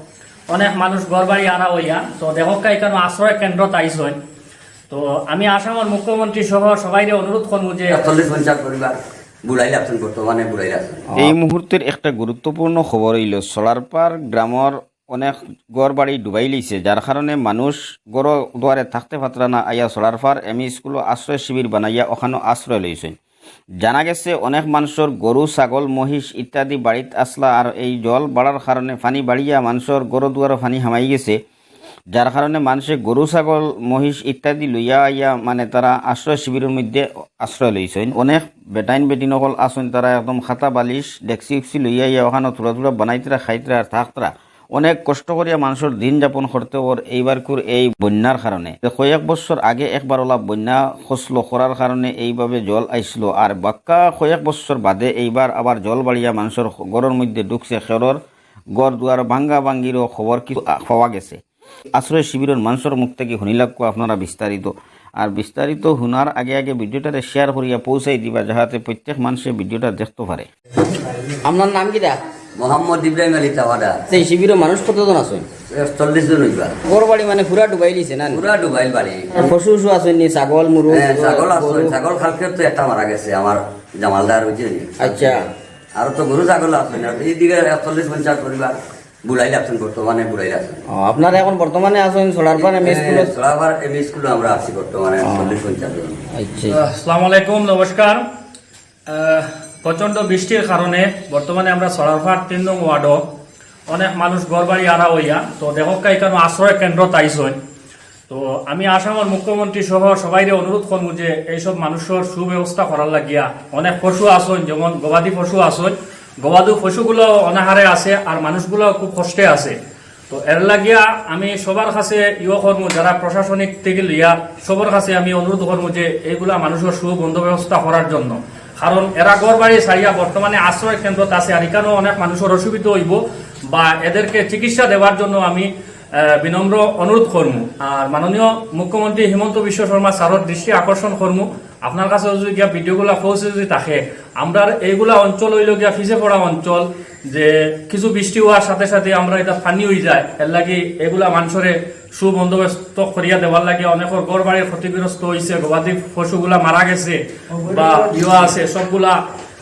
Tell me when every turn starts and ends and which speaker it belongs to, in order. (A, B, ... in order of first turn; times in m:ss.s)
0:00.5-0:04.2 A
0:04.9-0:08.0 A
0:07.9-0:11.0 B
0:11.1-0:23.2 C
0:23.8-0:31.4 C
0:32.1-0:58.2 C
0:58.8-1:01.4 C
1:01.9-1:10.5 C
1:11.4-1:12.2 D
1:12.6-1:14.0 B
1:14.1-1:15.4 D
1:15.7-1:16.8 B
1:16.9-1:18.4 D
1:18.3-1:19.4 B
1:19.3-1:21.9 D
1:20.9-1:25.4 B
1:25.0-1:25.4 D
1:26.0-1:28.8 B
1:29.3-1:30.8 B
1:30.9-1:33.3 D
1:32.6-1:36.2 B
1:35.3-1:35.5 D
1:36.4-1:36.8 D
1:36.7-1:38.2 A
1:39.1-1:43.2 A
1:43.9-1:47.6 A
1:48.3-1:59.8 A
2:00.3-2:13.2 A
2:13.7-2:15.7 A
2:16.2-2:39.2 A